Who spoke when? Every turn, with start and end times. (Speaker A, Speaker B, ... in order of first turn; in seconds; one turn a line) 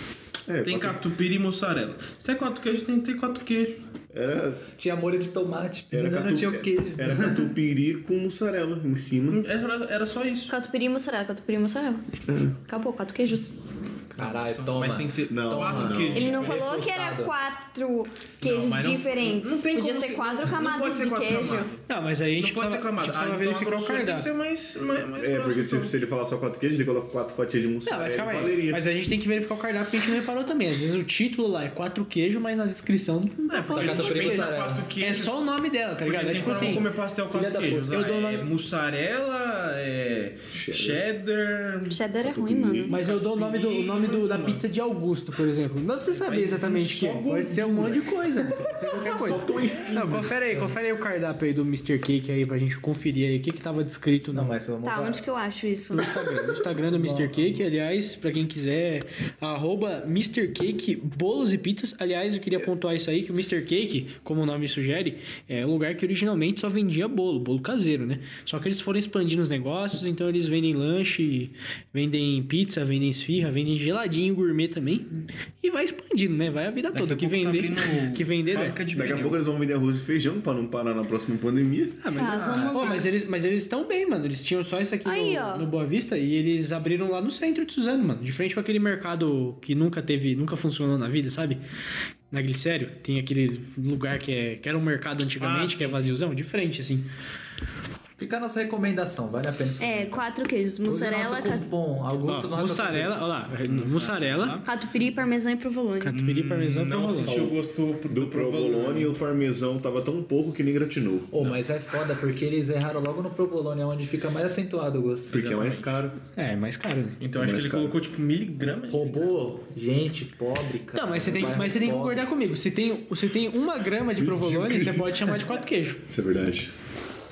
Speaker A: 0.5-1.0
Speaker B: 0.6-3.8
Speaker A: 4.1-4.6
Speaker C: 4.8-7.5
Speaker A: 5.9-9.4
Speaker B: 9.3-10.5
Speaker D: 10.5-12.0
Speaker A: 12.3-12.6
Speaker D: 12.6-13.6
Speaker B: 14.1-16.7
Speaker C: 14.2-17.3
Speaker A: 15.3-16.3
Speaker D: 16.1-21.7
Speaker B: 18.4-21.8
Speaker E: 21.9-24.3
Speaker B: 22.4-25.9
Speaker A: 25.2-28.9
Speaker E: 27.9-36.9
Speaker B: 33.5-35.4
Speaker C: 33.7-34.9
Speaker B: 36.0-42.0
Speaker C: 36.4-36.8
Speaker C: 37.3-37.9
Speaker E: 37.8-38.5
Speaker A: 40.5-41.0
Speaker D: 41.9-43.0
Speaker A: 42.2-43.0
Speaker B: 42.8-44.6
Speaker E: 42.9-54.5
Speaker B: 46.1-48.1
Speaker A: 49.0-50.4
Speaker C: 54.3-55.2
Speaker D: 54.8-56.5
Speaker E: 55.9-78.8
Speaker C: 56.8-57.6
Speaker B: 76.9-79.4
Speaker A: 78.9-82.1
Speaker E: 82.0-91.6
Speaker D: 82.1-83.1
Speaker C: 82.3-82.7
Speaker D: 85.0-85.7
Speaker E: 92.3-97.1
Speaker B: 95.4-96.1
Speaker C: 98.2-100.2
Speaker D: 99.8-101.7
Speaker C: 100.8-103.2
Speaker E: 102.2-104.6
Speaker B: 103.6-104.6
Speaker D: 104.6-106.2
Speaker E: 106.0-107.5
Speaker B: 106.1-109.1
Speaker A: 107.2-107.5
Speaker A: 108.1-111.3
Speaker C: 111.3-115.8
Speaker A: 115.3-116.1
Speaker B: 115.3-115.8
Speaker E: 116.3-117.2
Speaker B: 117.2-119.3
Speaker A: 117.3-117.9
Speaker C: 118.9-122.3
Speaker E: 120.9-126.0
Speaker A: 124.2-125.4
Speaker A: 126.1-126.7